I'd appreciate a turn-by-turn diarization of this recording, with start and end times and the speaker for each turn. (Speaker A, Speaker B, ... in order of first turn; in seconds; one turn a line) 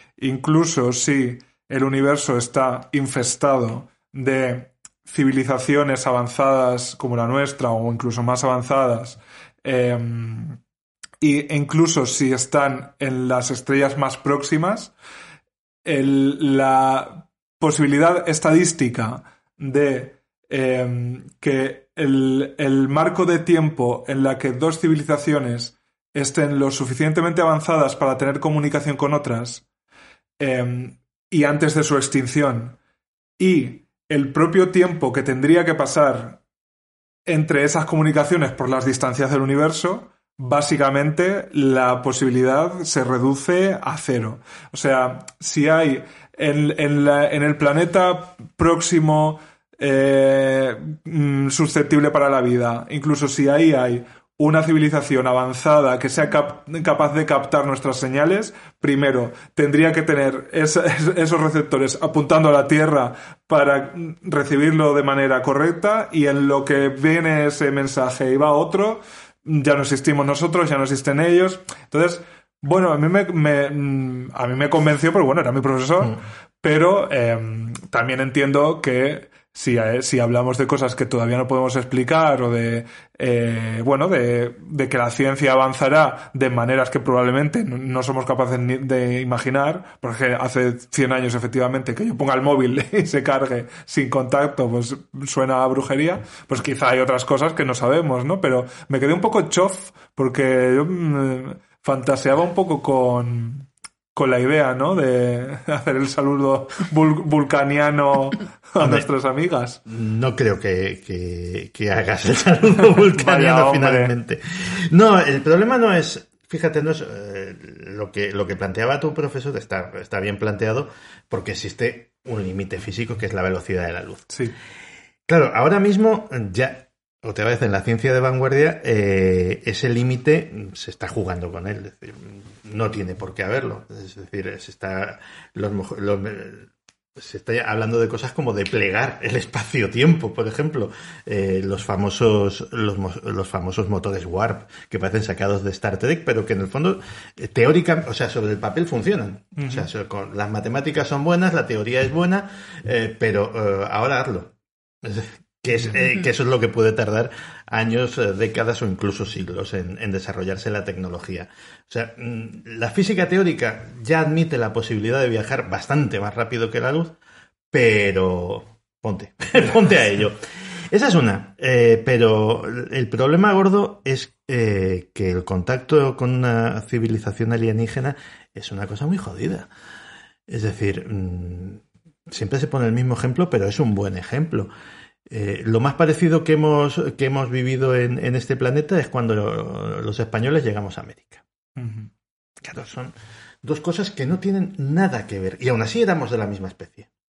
Speaker A: 0.2-10.6
Speaker A: 11.2-14.9
Speaker A: 15.8-29.6
Speaker A: 30.4-32.8
Speaker A: 33.4-36.4
Speaker A: 37.3-109.8
Speaker B: 108.8-109.1
Speaker B: 109.8-124.3
Speaker A: 113.1-114.1
Speaker B: 125.3-167.2
Speaker A: 149.6-149.9
Speaker B: 167.7-170.4
Speaker B: 170.9-179.7
Speaker B: 180.5-184.7
Speaker B: 185.3-191.4
Speaker A: 191.8-192.1
Speaker B: 192.6-197.1